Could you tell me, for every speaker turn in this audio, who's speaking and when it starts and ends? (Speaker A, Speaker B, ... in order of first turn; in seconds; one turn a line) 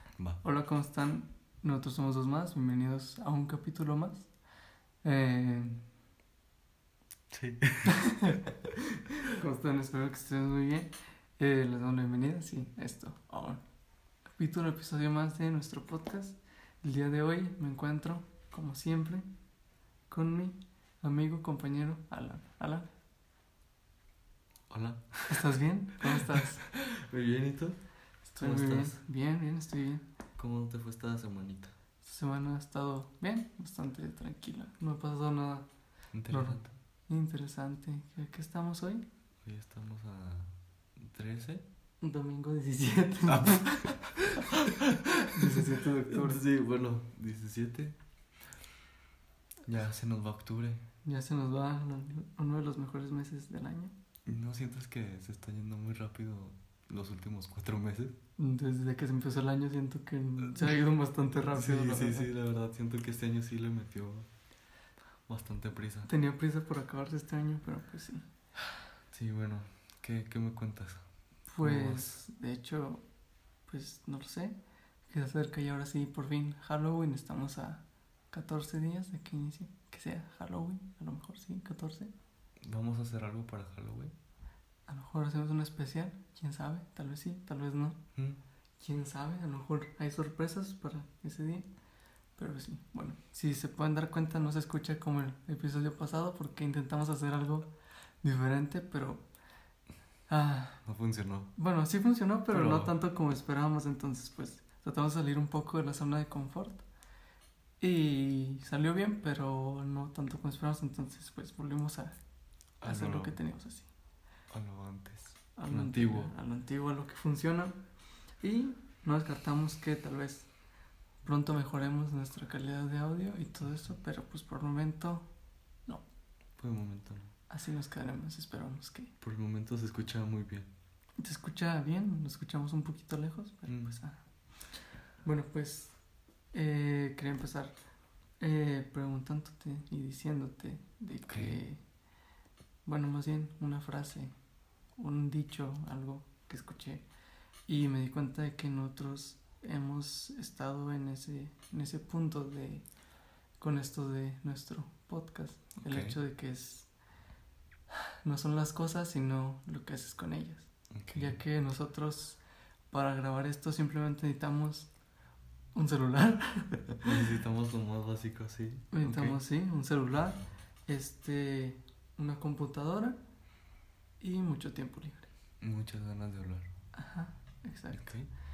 Speaker A: 0.4-4.3
Speaker A: 5.0-5.8
Speaker B: 7.3-8.4
Speaker A: 7.8-8.4
Speaker A: 8.9-13.6
Speaker A: 14.3-19.3
Speaker A: 20.1-22.9
Speaker B: 24.7-25.4
Speaker A: 25.3-26.6
Speaker B: 26.2-27.8
Speaker A: 28.2-30.0
Speaker B: 28.4-29.0
Speaker B: 30.4-31.8
Speaker A: 32.0-35.7
Speaker B: 36.1-36.8
Speaker A: 36.3-39.0
Speaker B: 39.4-41.6
Speaker A: 42.0-44.5
Speaker B: 43.3-48.0
Speaker A: 45.2-46.4
Speaker B: 49.7-50.8
Speaker A: 51.0-53.9
Speaker B: 54.2-58.1
Speaker A: 58.4-62.3
Speaker B: 61.5-64.3
Speaker B: 65.3-66.1
Speaker A: 66.0-68.3
Speaker B: 69.1-71.0
Speaker A: 71.5-73.0
Speaker B: 71.6-72.1
Speaker A: 73.7-74.5
Speaker A: 75.1-82.1
Speaker B: 82.6-84.1
Speaker A: 84.9-88.0
Speaker A: 88.8-91.7
Speaker A: 92.4-99.2
Speaker A: 100.3-100.8
Speaker B: 100.8-101.5
Speaker A: 101.5-106.8
Speaker B: 102.5-102.9
Speaker A: 107.8-112.2
Speaker B: 112.8-113.4
Speaker A: 112.8-113.9
Speaker B: 114.5-116.3
Speaker A: 115.6-117.8
Speaker A: 118.4-120.5
Speaker A: 121.2-125.3
Speaker B: 126.6-127.3
Speaker A: 127.5-129.1
Speaker B: 129.2-130.7
Speaker A: 131.2-134.2
Speaker B: 133.7-134.0
Speaker A: 135.2-136.0
Speaker A: 136.5-137.7
Speaker A: 138.4-141.8
Speaker B: 141.3-141.6
Speaker A: 142.8-144.3
Speaker A: 145.0-147.0
Speaker A: 147.7-152.8
Speaker A: 153.6-156.9
Speaker B: 155.8-156.2
Speaker A: 158.2-164.9
Speaker B: 160.9-161.4
Speaker A: 165.7-167.0
Speaker B: 167.0-169.4
Speaker A: 168.9-173.2
Speaker A: 174.2-175.3
Speaker B: 175.6-176.7
Speaker A: 176.9-178.1
Speaker B: 177.9-178.3